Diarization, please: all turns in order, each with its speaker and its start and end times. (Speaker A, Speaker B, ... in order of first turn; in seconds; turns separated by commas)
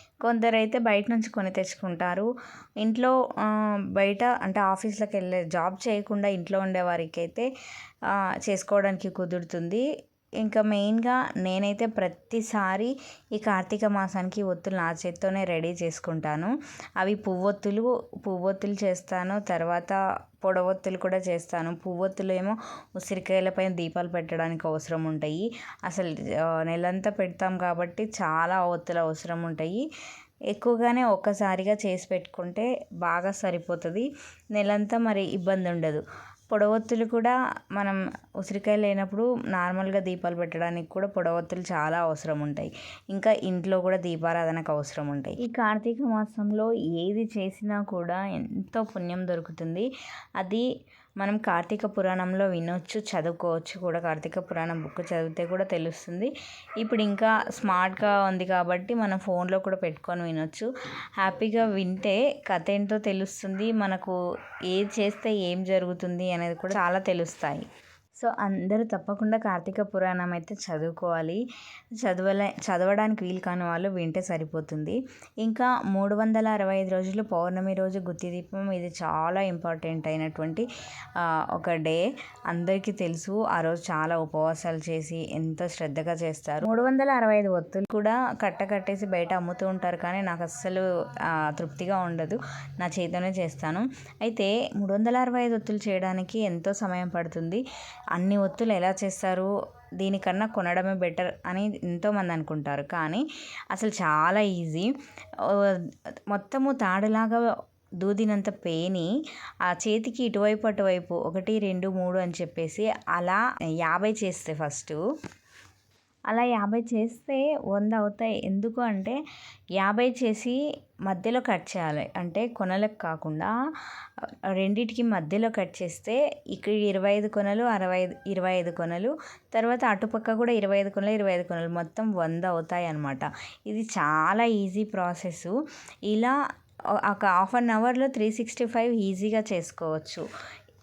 Speaker A: 0.2-2.3, Speaker A: 2.8-7.5, Speaker A: 8.4-9.8, Speaker A: 10.4-26.1, Speaker A: 26.6-29.8, Speaker A: 30.5-49.9, Speaker A: 51.2-60.7, Speaker A: 61.2-64.2, Speaker A: 64.7-67.7, Speaker A: 68.2-71.4, Speaker A: 72.0-80.6, Speaker A: 81.2-90.8, Speaker A: 91.5-97.6, Speaker A: 98.1-104.9, Speaker A: 105.5-107.5, Speaker A: 108.0-109.1, Speaker A: 109.6-115.0, Speaker A: 116.3-119.2, Speaker A: 119.8-123.5, Speaker A: 124.5-135.5, Speaker A: 136.1-136.3, Speaker A: 137.0-140.2